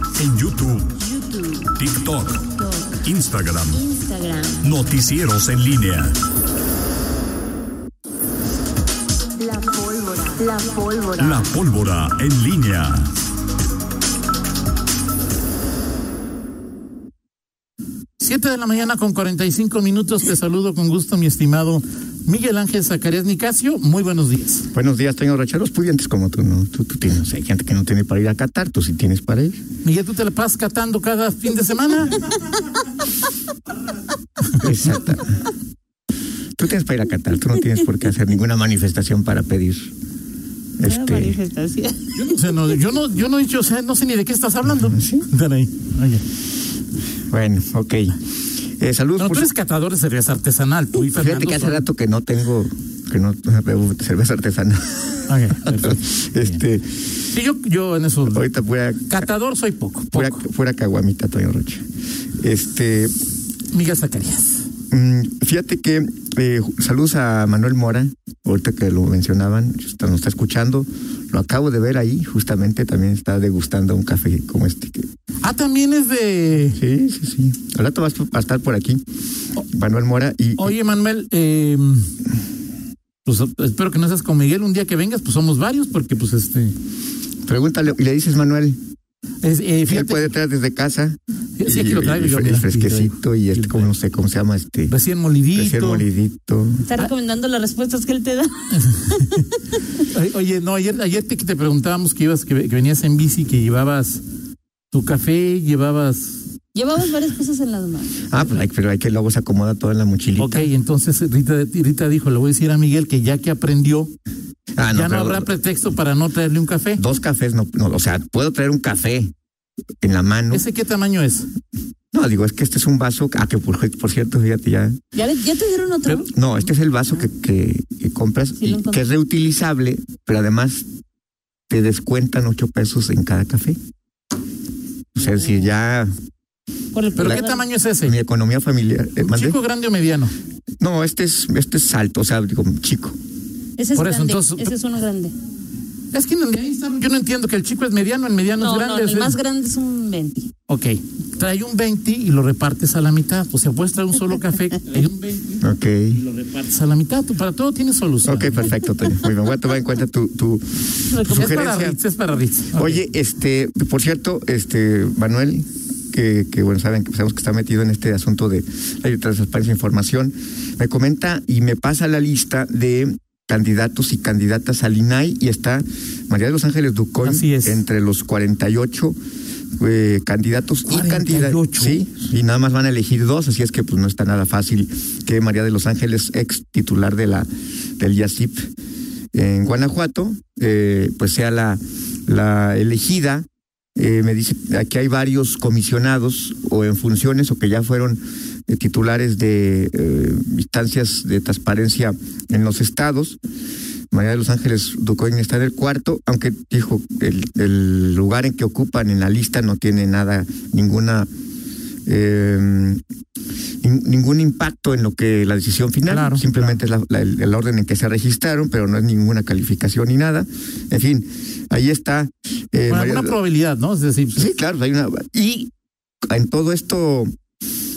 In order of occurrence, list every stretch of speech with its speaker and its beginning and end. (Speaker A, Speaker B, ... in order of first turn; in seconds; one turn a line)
Speaker A: 0.1-0.9
Speaker B: 1.0-1.8
Speaker A: 1.8-2.5
Speaker B: 2.5-3.0
Speaker A: 3.1-3.8
Speaker B: 3.7-4.8
Speaker A: 4.6-6.1
Speaker B: 9.4-11.5
Speaker A: 11.2-13.1
Speaker C: 18.2-24.7
Speaker D: 24.7-29.6
Speaker C: 29.8-32.5
Speaker D: 34.6-35.4
Speaker D: 36.6-39.9
Speaker D: 40.8-41.4
Speaker B: 40.8-42.5
Speaker C: 42.1-46.2
Speaker D: 44.7-45.2
Speaker D: 47.3-48.2
Speaker D: 48.8-49.5
Speaker C: 49.2-51.8
Speaker D: 51.0-56.9
Speaker C: 55.3-56.6
Speaker C: 57.3-58.5
Speaker D: 58.3-59.2
Speaker C: 59.1-60.4
Speaker D: 60.1-61.9
Speaker D: 62.4-63.1
Speaker C: 63.7-64.7
Speaker D: 64.9-75.1
Speaker C: 75.4-76.8
Speaker D: 76.7-79.0
Speaker D: 79.6-80.7
Speaker C: 80.6-82.1
Speaker C: 83.2-86.8
Speaker D: 87.5-88.8
Speaker C: 89.4-90.3
Speaker D: 89.9-94.9
Speaker C: 91.6-93.9
Speaker C: 94.9-96.1
Speaker D: 95.5-96.8
Speaker B: 96.8-99.5
Speaker C: 98.8-99.4
Speaker C: 100.0-104.2
Speaker C: 104.9-106.5
Speaker B: 106.7-108.2
Speaker D: 108.3-110.7
Speaker C: 110.4-114.1
Speaker D: 114.8-115.6
Speaker C: 114.9-117.0
Speaker D: 117.0-119.3
Speaker D: 120.0-120.6
Speaker C: 120.5-121.5
Speaker D: 122.1-125.0
Speaker B: 125.1-126.3
Speaker D: 126.3-130.8
Speaker B: 128.6-129.0
Speaker D: 131.7-133.8
Speaker D: 135.2-136.1
Speaker B: 136.9-137.6
Speaker C: 137.2-138.2
Speaker D: 137.2-137.4
Speaker D: 138.0-139.6
Speaker C: 139.2-140.3
Speaker D: 140.8-143.2
Speaker B: 143.8-145.3
Speaker C: 143.9-144.7
Speaker C: 146.1-149.4
Speaker B: 148.6-150.5
Speaker C: 150.7-158.7
Speaker D: 155.6-156.2
Speaker D: 158.2-162.0
Speaker B: 161.1-161.5
Speaker C: 161.3-163.0
Speaker D: 162.7-179.2
Speaker C: 177.2-177.8
Speaker D: 179.8-187.5
Speaker C: 180.9-182.0
Speaker D: 188.0-188.7
Speaker D: 189.3-203.4
Speaker D: 204.1-211.3
Speaker D: 212.1-213.0
Speaker D: 213.8-223.3
Speaker C: 216.0-216.8
Speaker C: 222.9-224.5
Speaker D: 224.3-225.7
Speaker D: 226.3-227.3